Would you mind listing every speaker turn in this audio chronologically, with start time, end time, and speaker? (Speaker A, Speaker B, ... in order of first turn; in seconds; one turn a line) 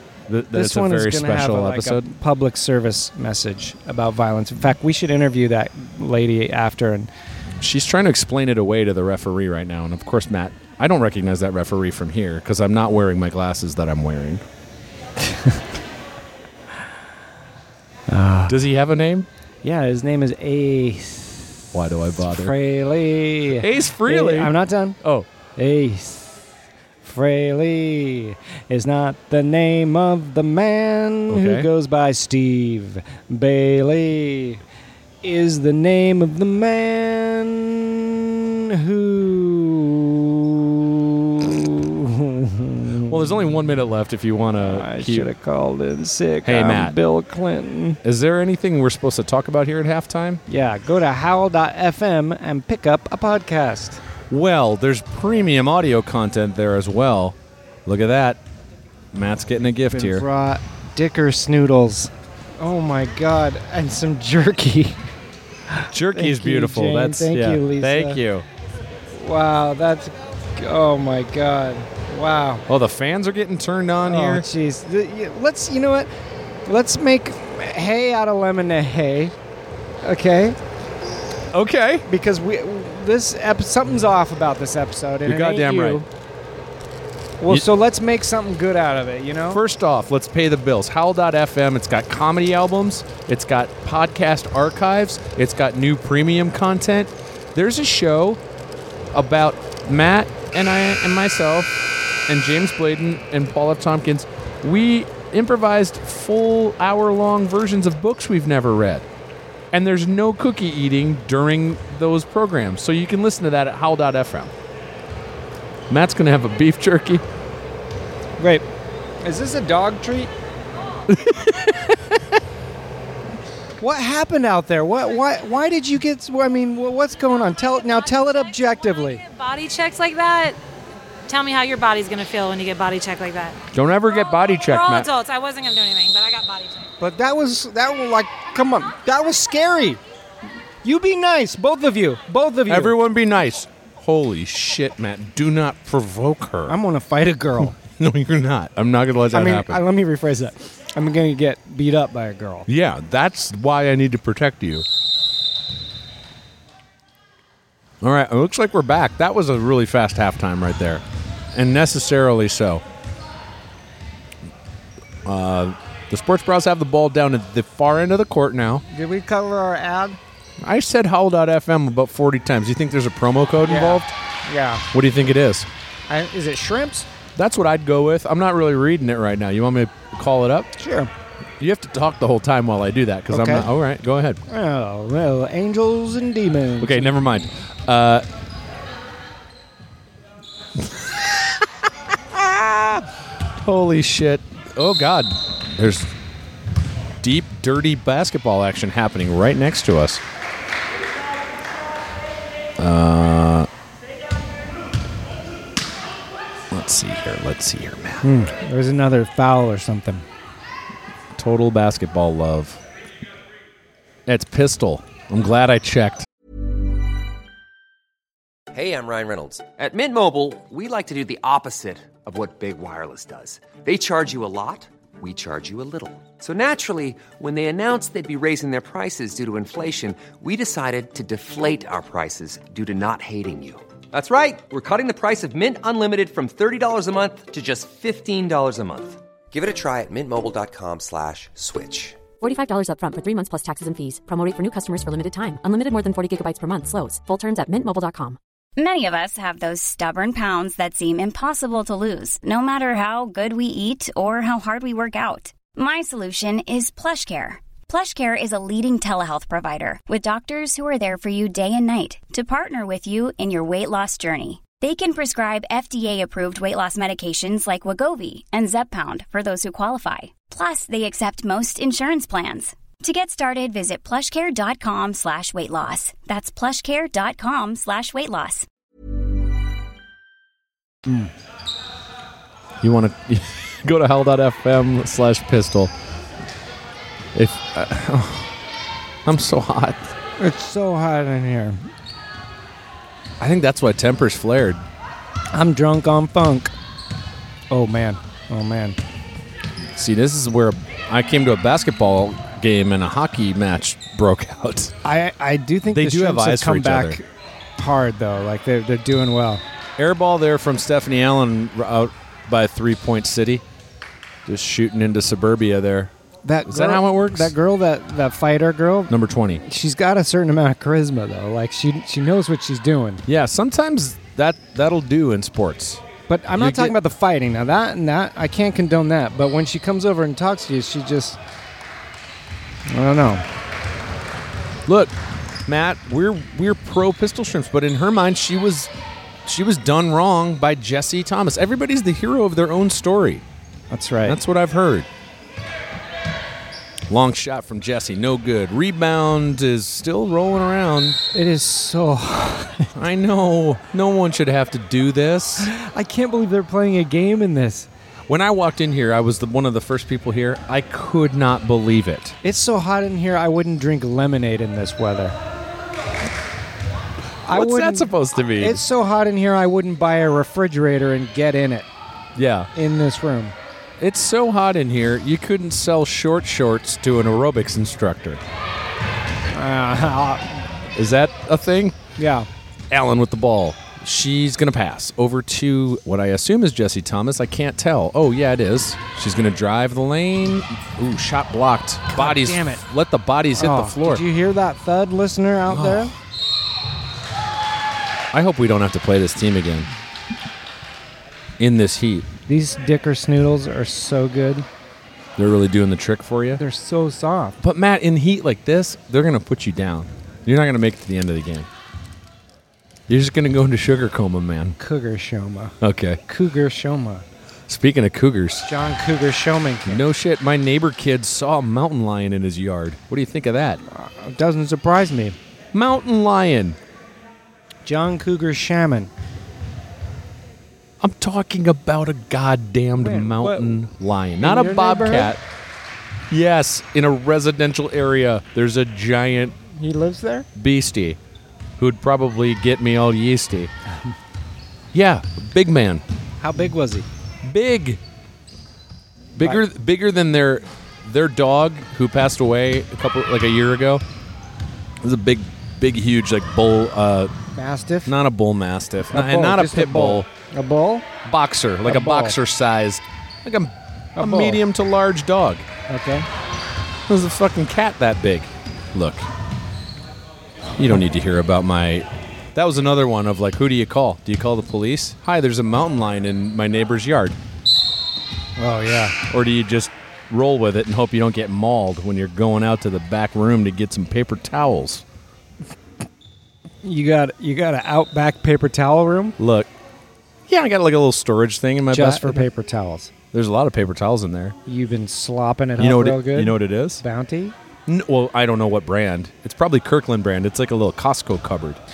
Speaker A: 0.3-2.1
Speaker B: 0.5-7.1
Speaker A: 7.6-14.4
Speaker B: 15.3-15.6
Speaker B: 18.1-18.6
Speaker A: 18.5-19.3
Speaker B: 19.6-21.6
Speaker A: 21.7-22.6
Speaker B: 22.3-25.0
Speaker A: 23.5-25.3
Speaker B: 25.6-26.4
Speaker B: 27.0-34.6
Speaker A: 31.3-31.7
Speaker B: 35.2-43.5
Speaker A: 43.1-45.3
Speaker B: 44.6-48.0
Speaker A: 46.4-47.0
Speaker A: 48.0-50.4
Speaker B: 50.5-54.0
Speaker A: 54.3-58.4
Speaker A: 59.1-60.2
Speaker B: 59.9-65.0
Speaker B: 65.7-68.2
Speaker A: 65.9-68.5
Speaker B: 69.1-72.6
Speaker A: 72.7-74.5
Speaker B: 74.0-76.1
Speaker B: 76.7-79.3
Speaker B: 80.0-80.6
Speaker A: 81.5-82.0
Speaker B: 82.0-86.0
Speaker A: 85.2-86.1
Speaker B: 87.4-89.6
Speaker A: 89.5-98.4
Speaker A: 99.1-109.0
Speaker A: 109.7-114.5
Speaker A: 115.9-117.2
Speaker B: 118.4-118.6
Speaker B: 119.2-120.3
Speaker A: 121.1-122.2
Speaker B: 123.8-129.2
Speaker C: 129.1-130.6
Speaker C: 131.3-133.6
Speaker A: 133.7-135.1
Speaker C: 134.6-136.9
Speaker B: 137.0-140.0
Speaker B: 140.8-142.9
Speaker A: 142.7-146.8
Speaker B: 146.7-147.8
Speaker A: 147.6-149.8
Speaker B: 149.3-152.7
Speaker A: 152.7-154.8
Speaker A: 158.0-162.8
Speaker A: 165.2-168.8
Speaker B: 168.9-170.2
Speaker A: 170.6-174.1
Speaker B: 173.6-174.8
Speaker A: 174.9-175.7
Speaker B: 176.1-177.1
Speaker A: 177.3-180.7
Speaker B: 180.8-181.1
Speaker A: 181.6-184.4
Speaker B: 183.3-183.7
Speaker B: 184.5-187.1
Speaker A: 186.8-188.2
Speaker A: 190.8-193.1
Speaker A: 193.6-196.1
Speaker A: 197.2-200.2
Speaker A: 202.8-203.7
Speaker A: 206.7-208.3
Speaker B: 208.2-210.2
Speaker A: 211.3-212.8
Speaker A: 214.2-216.2
Speaker D: 218.7-242.2
Speaker E: 242.4-248.4
Speaker F: 248.8-278.6
Speaker A: 282.8-285.9
Speaker A: 287.3-288.5
Speaker A: 289.2-290.1
Speaker B: 290.4-291.8
Speaker A: 293.4-294.8
Speaker B: 295.5-296.7
Speaker B: 297.7-299.0
Speaker A: 299.9-304.9
Speaker B: 305.0-307.2
Speaker A: 305.9-307.2
Speaker B: 307.8-309.6
Speaker A: 310.0-313.6
Speaker A: 314.4-316.1
Speaker B: 316.4-323.2
Speaker A: 316.6-317.5
Speaker A: 319.1-319.6
Speaker A: 323.3-326.0
Speaker B: 326.3-331.4
Speaker A: 326.5-326.9
Speaker B: 332.9-333.4
Speaker A: 334.9-335.1
Speaker A: 335.6-338.9
Speaker A: 339.4-343.4
Speaker B: 343.9-344.4
Speaker A: 344.2-345.1
Speaker A: 347.1-351.2
Speaker B: 351.3-352.9
Speaker A: 352.9-355.7
Speaker B: 355.6-357.9
Speaker A: 358.3-362.4
Speaker B: 362.4-365.3
Speaker A: 367.4-368.8
Speaker B: 367.5-371.9
Speaker A: 372.3-372.7
Speaker B: 372.7-373.5
Speaker A: 374.0-378.4
Speaker B: 379.5-380.6
Speaker A: 380.9-382.0
Speaker B: 382.2-382.5
Speaker A: 382.9-394.2
Speaker B: 392.1-392.8
Speaker B: 393.6-396.1
Speaker A: 395.7-396.1
Speaker A: 398.3-399.9
Speaker A: 401.6-402.3
Speaker B: 402.5-404.7
Speaker A: 405.4-406.6
Speaker B: 406.6-407.6
Speaker A: 407.6-411.7
Speaker A: 413.1-414.8
Speaker B: 414.8-417.2
Speaker A: 415.8-416.2
Speaker A: 417.7-418.7
Speaker B: 418.6-420.0
Speaker A: 419.8-423.8
Speaker B: 423.9-425.4
Speaker A: 425.7-426.8
Speaker B: 427.8-429.1
Speaker A: 431.0-435.4
Speaker B: 433.0-433.8
Speaker B: 434.4-435.3
Speaker A: 436.3-439.6
Speaker B: 439.7-440.5
Speaker A: 440.5-441.2
Speaker A: 441.8-443.7
Speaker A: 444.9-446.0
Speaker B: 446.4-447.1
Speaker A: 447.4-448.0
Speaker A: 449.4-454.0
Speaker A: 455.0-457.3
Speaker B: 457.5-458.1
Speaker A: 458.1-460.3
Speaker B: 459.1-461.1
Speaker A: 461.2-465.7
Speaker B: 461.8-462.4
Speaker B: 464.1-464.6
Speaker B: 465.9-466.3
Speaker A: 467.1-469.3
Speaker A: 470.8-477.4
Speaker B: 478.6-479.1
Speaker A: 479.3-485.0
Speaker B: 486.8-489.4
Speaker A: 489.4-489.7
Speaker A: 490.5-492.5
Speaker B: 491.9-493.1
Speaker A: 493.3-494.6
Speaker B: 494.6-497.5
Speaker A: 495.8-497.0
Speaker A: 497.9-501.8